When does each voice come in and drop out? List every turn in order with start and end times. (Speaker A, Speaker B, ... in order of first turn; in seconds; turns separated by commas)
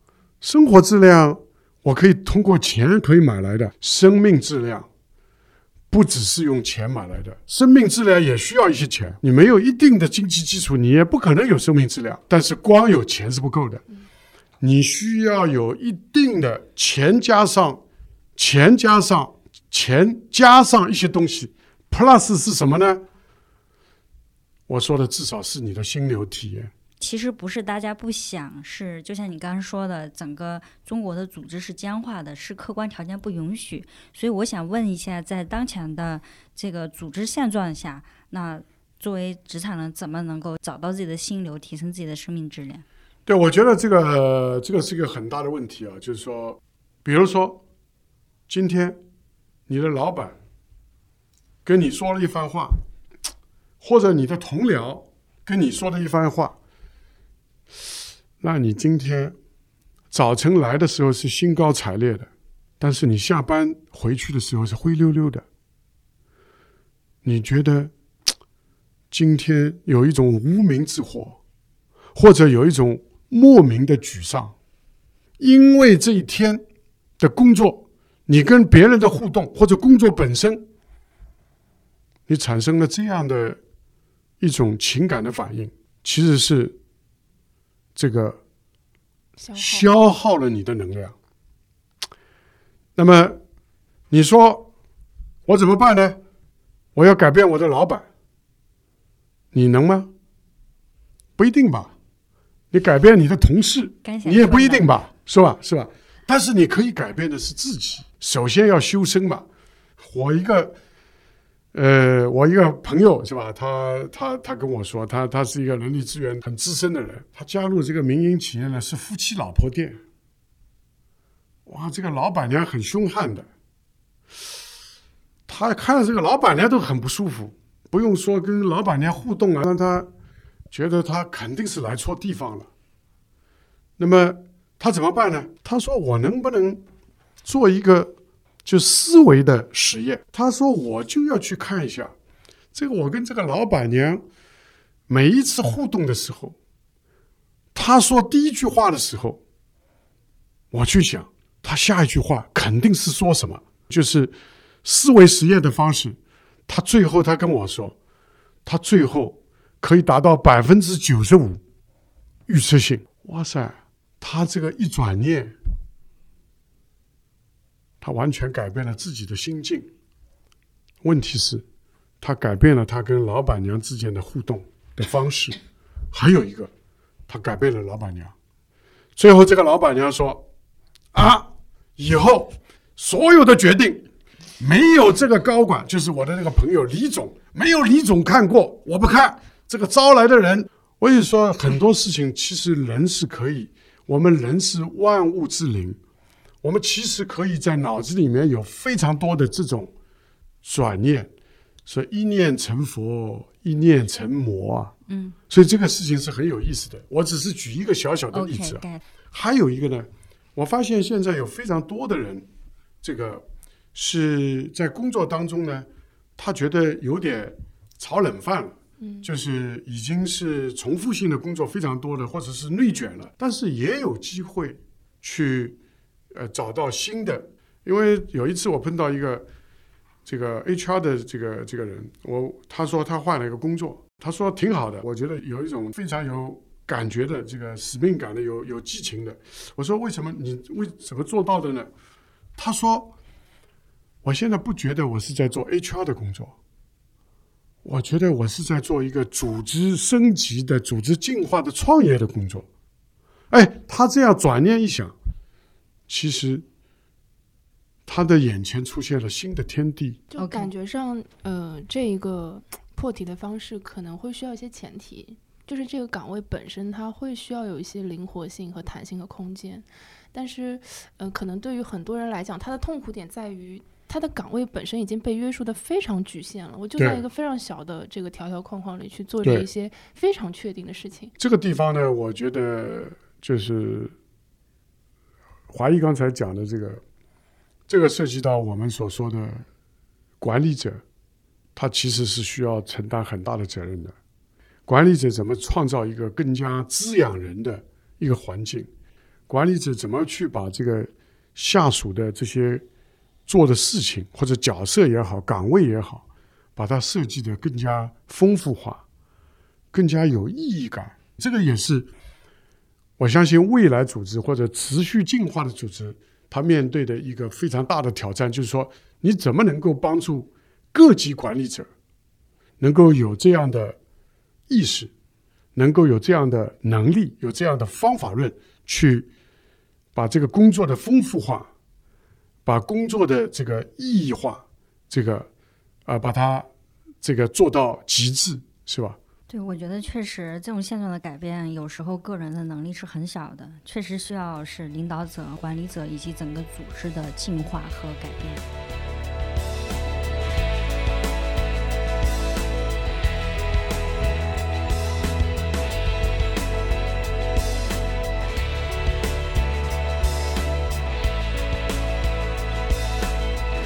Speaker A: 0.4-4.9, Speaker A: 5.9-13.8, Speaker A: 14.6-17.8, Speaker A: 18.4-23.0, Speaker A: 24.7-26.7, Speaker B: 27.0-42.8, Speaker A: 43.2-47.6, Speaker A: 48.5-49.0, Speaker A: 49.7-50.4, Speaker A: 51.6-52.8, Speaker A: 53.8-56.5, Speaker A: 58.4-59.4, Speaker A: 60.1-62.3, Speaker A: 62.8-65.4, Speaker A: 67.2-67.9, Speaker A: 69.1-71.4, Speaker A: 72.1-74.5, Speaker A: 75.4-76.6, Speaker A: 77.2-80.7, Speaker A: 82.3-83.6, Speaker A: 84.4-86.8, Speaker A: 87.9-88.4, Speaker C: 89.4-89.9, Speaker A: 89.5-91.1, Speaker A: 93.0-93.4, Speaker A: 94.1-94.7, Speaker A: 95.5-96.2, Speaker A: 96.9-98.0, Speaker A: 99.5-100.1, Speaker A: 101.4-101.9, Speaker A: 102.7-109.5, Speaker B: 104.0-104.9, Speaker A: 110.0-110.7, Speaker A: 111.7-120.0, Speaker A: 121.7-123.5, Speaker A: 125.5-130.1, Speaker A: 130.7-132.7, Speaker A: 134.0-136.8, Speaker A: 137.4-142.1, Speaker A: 142.7-144.2, Speaker A: 145.1-146.6, Speaker A: 147.7-149.4, Speaker A: 150.7-154.3, Speaker A: 154.8-156.2, Speaker A: 156.7-157.9, Speaker A: 158.6-161.6, Speaker A: 162.5-165.5, Speaker A: 168.0-169.9, Speaker A: 171.0-171.6, Speaker A: 172.2-175.6, Speaker A: 176.1-176.7, Speaker A: 177.3-178.3, Speaker A: 179.2-180.4, Speaker A: 181.1-184.0, Speaker A: 184.6-196.0, Speaker A: 196.6-199.9, Speaker A: 200.6-201.3, Speaker A: 201.8-204.9, Speaker B: 205.1-205.4, Speaker A: 205.5-212.5, Speaker B: 208.3-209.0, Speaker A: 213.0-225.8, Speaker A: 226.3-229.4, Speaker A: 230.2-241.9, Speaker A: 242.6-243.1, Speaker A: 244.2-246.6, Speaker A: 247.8-252.7, Speaker A: 253.5-255.1, Speaker A: 256.1-256.6, Speaker A: 258.1-260.2, Speaker C: 260.3-281.3, Speaker B: 260.4-260.7, Speaker A: 277.0-277.2, Speaker A: 281.4-284.1, Speaker A: 285.7-287.0, Speaker A: 287.9-289.6, Speaker A: 290.4-291.0, Speaker A: 291.7-294.1, Speaker A: 294.9-298.9, Speaker A: 299.5-302.8, Speaker A: 303.5-306.2, Speaker A: 306.8-309.0, Speaker A: 309.9-312.1, Speaker A: 313.2-321.9, Speaker A: 322.8-324.0, Speaker A: 324.7-325.1, Speaker A: 325.8-329.3, Speaker A: 330.1-331.7, Speaker A: 332.6-335.5, Speaker A: 336.1-336.7, Speaker A: 337.2-339.2, Speaker B: 339.5-348.7